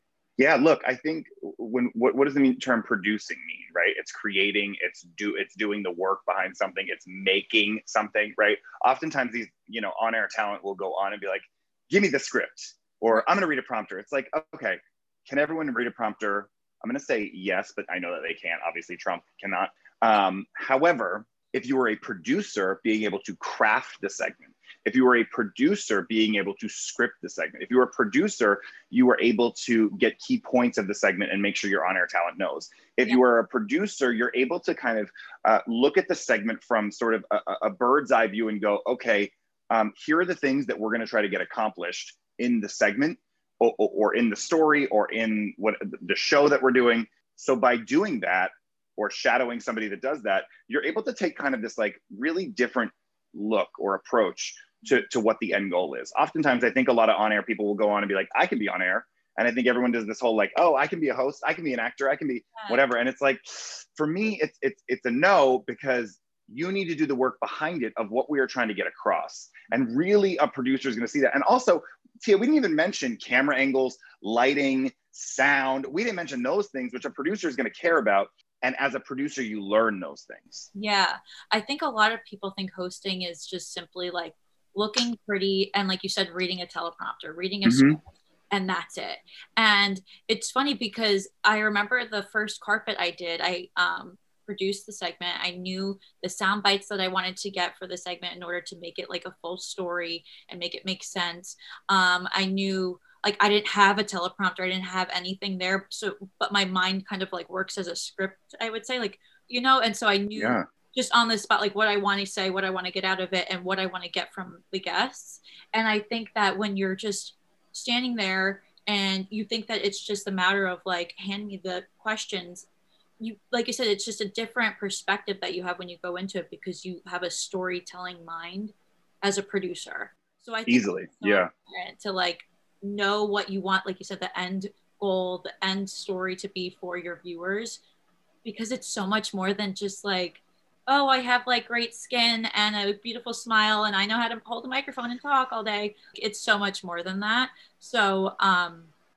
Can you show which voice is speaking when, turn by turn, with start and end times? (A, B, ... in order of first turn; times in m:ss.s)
0:00.4-1:20.7 A
1:02.6-1:02.8 B
1:20.7-2:02.6 B
1:27.6-1:28.0 A
1:50.4-1:50.6 A
2:03.2-2:17.8 B
2:10.7-2:11.5 A
2:18.4-2:28.9 B